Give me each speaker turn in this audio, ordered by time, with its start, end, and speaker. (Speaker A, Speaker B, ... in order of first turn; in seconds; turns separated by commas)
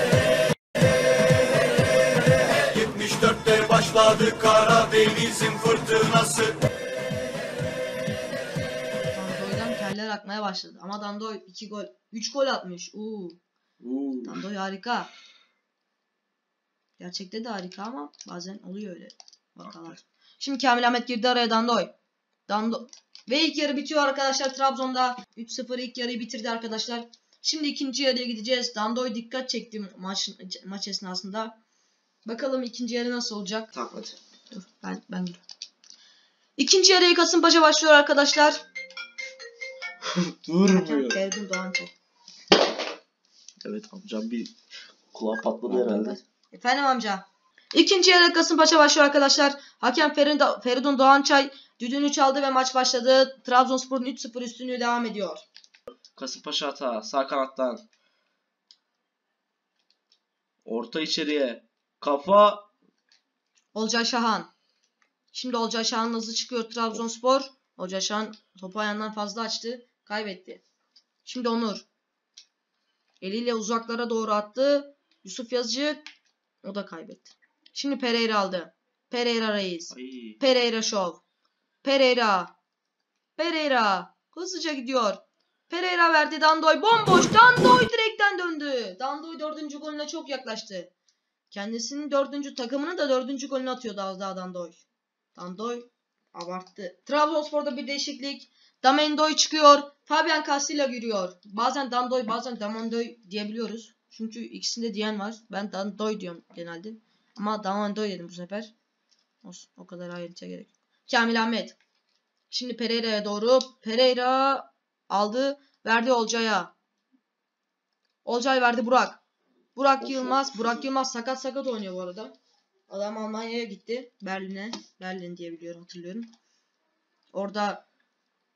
Speaker A: 2.8-6.5, Speaker B: 9.1-13.4, Speaker C: 13.8-14.4, Speaker B: 14.2-15.1, Speaker B: 17.0-21.9, Speaker B: 22.5-31.6, Speaker B: 32.2-33.7, Speaker C: 33.7-34.2, Speaker B: 34.5-35.4, Speaker B: 36.6-38.6, Speaker C: 40.0-41.2, Speaker B: 40.7-41.9, Speaker C: 43.6-44.5, Speaker C: 45.1-46.2, Speaker B: 45.7-55.4, Speaker C: 56.1-57.8, Speaker C: 60.6-62.7, Speaker B: 63.7-64.5, Speaker B: 65.3-70.6, Speaker B: 71.2-71.8, Speaker B: 73.2-76.0, Speaker B: 76.6-81.2, Speaker C: 79.9-80.4, Speaker B: 81.8-82.5, Speaker B: 83.4-90.9, Speaker B: 91.5-94.8, Speaker B: 95.3-108.7, Speaker B: 109.4-111.8, Speaker B: 112.5-116.7, Speaker B: 118.2-119.2, Speaker B: 119.7-122.3, Speaker C: 120.0-120.8, Speaker B: 122.9-126.3, Speaker B: 127.3-127.8